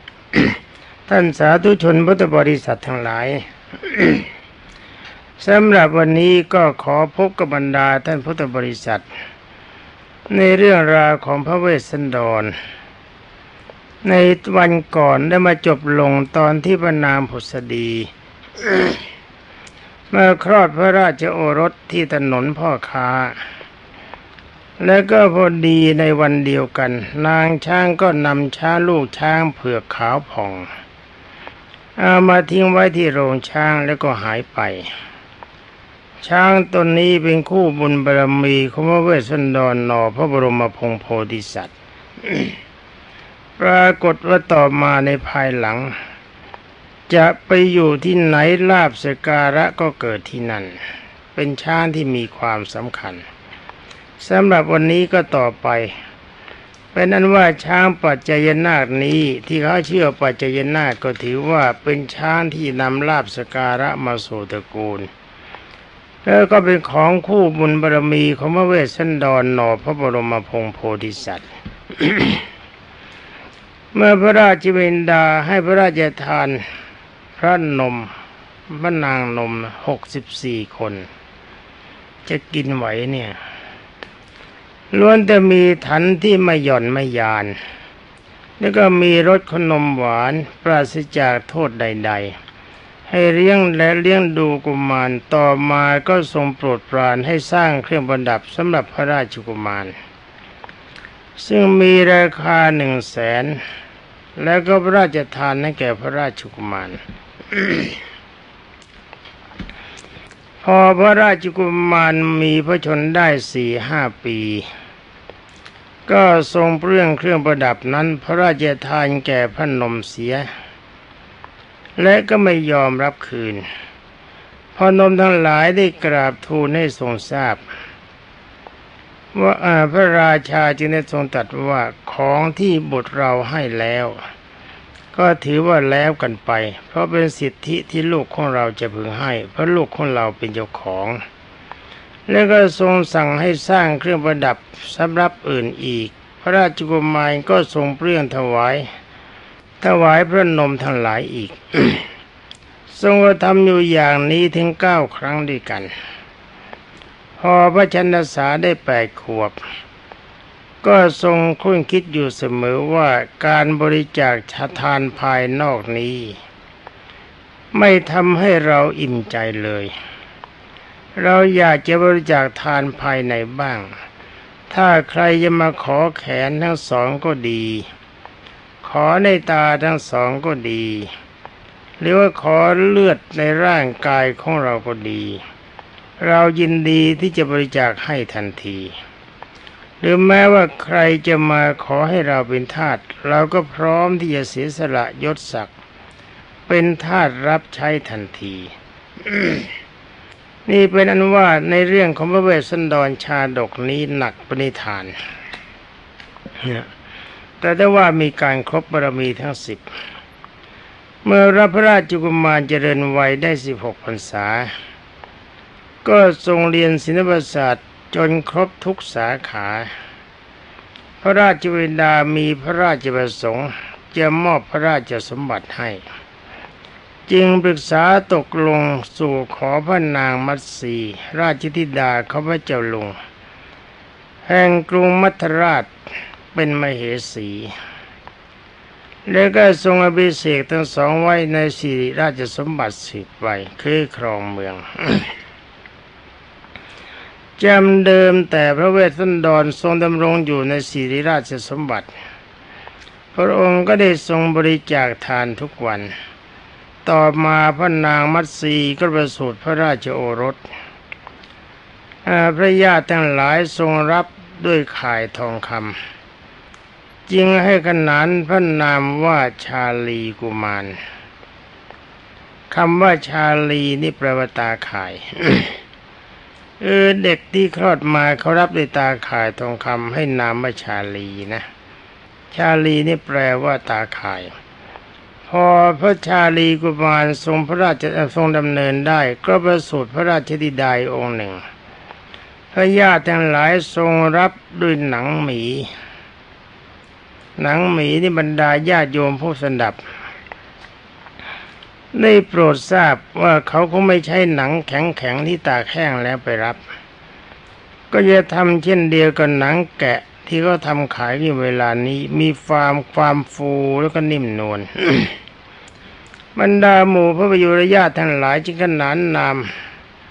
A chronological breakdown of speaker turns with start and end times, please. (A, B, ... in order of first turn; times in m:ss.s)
0:00.3-0:04.3 A
0:05.4-0:09.0 A
0:10.3-0:12.5 A
0:14.0-0:19.0 A
0:20.1-0:23.4 A
0:24.8-0:30.7 A
0:32.0-0:34.9 A
0:36.2-0:42.6 A
0:43.6-0:46.0 A
0:47.1-0:50.8 A
0:51.3-0:53.2 A
0:54.2-0:55.9 A
0:56.9-1:05.1 A
1:06.2-1:12.4 A
1:13.9-1:16.6 A
1:17.4-1:18.1 A
1:18.7-1:21.1 A
1:22.2-1:23.3 A
1:24.9-1:27.5 A
1:28.6-1:32.4 A
1:33.1-1:39.9 A
1:41.4-1:43.6 A
1:44.4-1:48.0 A
1:50.6-1:54.7 A
1:56.1-2:00.5 A
2:02.0-2:03.6 A
2:04.7-2:07.6 A
2:09.3-2:14.2 A
2:15.1-2:21.2 A
2:22.3-2:28.9 A
2:29.8-2:32.1 A
2:32.9-2:35.9 A
2:37.4-2:39.6 A
2:40.8-2:46.4 A
2:47.7-2:49.9 A
2:51.2-2:53.9 A
2:54.7-2:57.9 A
2:58.8-3:01.1 A
3:02.0-3:05.4 A
3:06.2-3:09.0 A
3:10.0-3:15.7 A
3:16.7-3:18.7 A
3:19.2-3:19.7 A
3:20.7-3:25.1 A
3:26.6-3:26.9 A
3:27.6-3:29.8 A
3:31.2-3:34.7 A
3:36.0-3:39.9 A
3:41.2-3:46.0 A
3:47.3-3:53.1 A
3:54.4-3:55.9 A
3:56.5-3:57.7 A
3:59.3-4:05.3 A
4:07.6-4:12.1 A
4:13.3-4:16.1 A
4:17.0-4:20.6 A
4:22.2-4:26.0 A
4:27.3-4:31.0 A
4:32.7-4:35.8 A
4:36.8-4:41.6 A
4:42.5-4:44.5 A
4:45.5-4:51.6 A
4:52.7-4:55.9 A
4:57.6-5:00.0 A
5:02.1-5:06.8 A
5:08.1-5:15.4 A
5:16.6-5:19.7 A